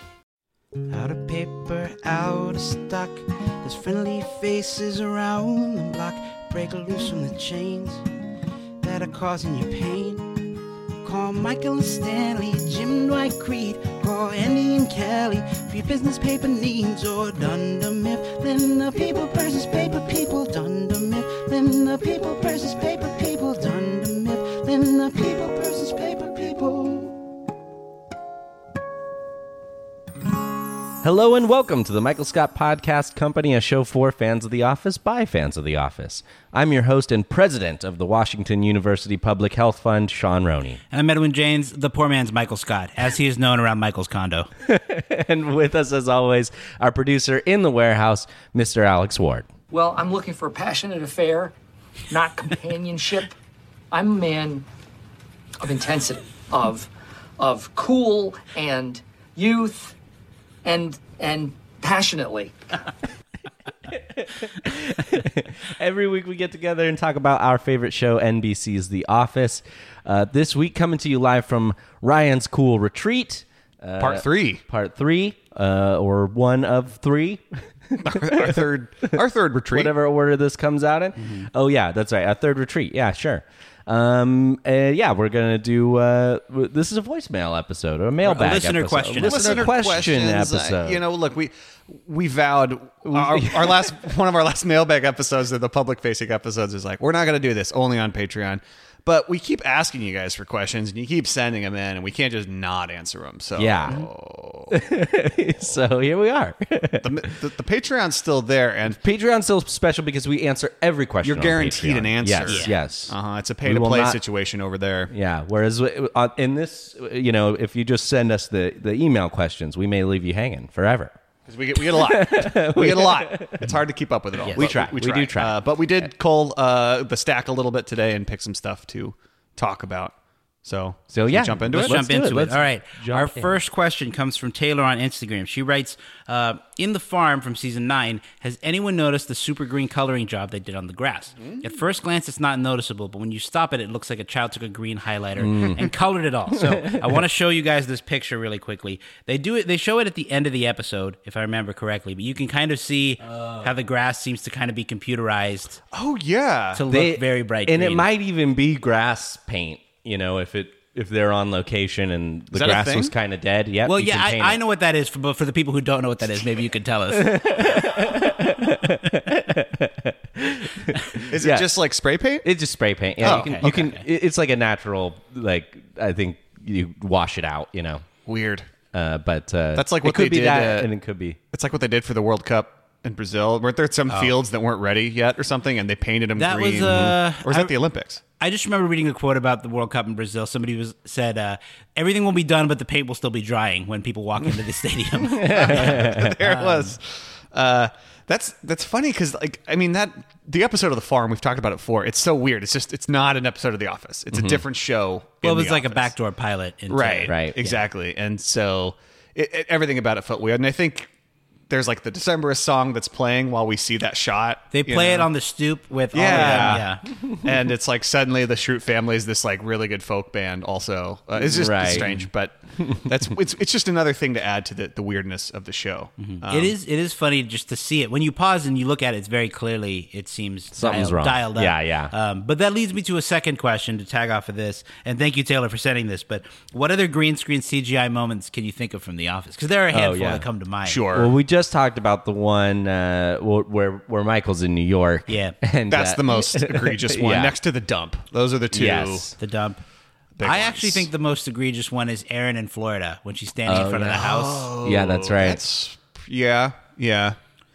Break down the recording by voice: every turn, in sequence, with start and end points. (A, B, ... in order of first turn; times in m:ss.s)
0:00.9-0:08.0 A
0:08.8-0:10.5 A
0:11.0-0:27.1 A
0:31.0-0:40.8 B
0:40.9-0:44.5 C
0:44.6-0:49.5 B
0:49.7-0:51.5 D
0:52.1-0:53.4 D
0:53.9-0:54.7 D
0:55.6-1:00.0 D
1:00.6-1:02.6 D
1:03.9-1:31.0 B
1:14.0-1:14.6 E
1:18.0-1:19.9 E
1:21.2-1:21.5 C
1:28.2-1:29.7 C
1:29.2-1:44.8 E
1:33.1-1:33.9 B
1:43.6-1:44.1 B
1:44.7-1:47.2 B
1:47.0-1:49.0 E
1:48.9-1:54.2 B
1:51.2-1:55.1 E
1:52.4-1:52.7 C
1:55.1-2:01.1 B
2:01.4-2:12.0 E
2:01.8-2:03.8 B
2:04.4-2:06.0 B
2:04.4-2:04.7 C
2:11.1-2:13.6 B
2:11.7-2:35.8 C
2:25.4-2:25.8 B
2:26.7-2:27.0 B
2:35.9-2:36.8 E
2:36.7-2:38.1 C
2:36.9-2:44.6 B
2:42.5-2:43.1 E
2:43.8-2:47.9 C
2:47.1-2:51.7 B
2:51.3-2:52.5 E
2:52.4-2:58.1 B
2:53.2-2:54.0 E
2:53.2-2:54.0 C
2:58.2-2:58.7 E
2:58.9-3:01.4 B
2:59.7-3:00.9 E
3:01.5-3:08.2 E
3:06.4-3:07.7 C
3:06.9-3:07.1 B
3:08.4-3:17.0 C
3:15.3-3:16.3 B
3:15.4-3:26.1 E
3:24.3-3:24.6 B
3:25.4-3:27.8 C
3:26.9-3:31.1 E
3:27.3-3:27.6 B
3:31.7-3:35.3 E
3:34.7-3:37.0 C
3:36.1-3:36.9 E
3:36.3-3:36.9 B
3:37.4-3:46.7 E
3:41.4-3:42.1 B
3:41.9-3:42.3 C
3:46.2-4:01.0 C
3:50.7-3:52.1 B
3:59.9-4:00.4 B
4:00.8-4:01.3 E
4:01.1-4:07.5 B
4:05.3-4:05.5 C
4:05.9-4:09.3 E
4:08.7-4:09.3 B
4:09.4-4:09.8 C
4:10.4-4:11.1 E
4:10.4-4:14.7 C
4:13.7-4:15.6 B
4:14.2-4:17.4 E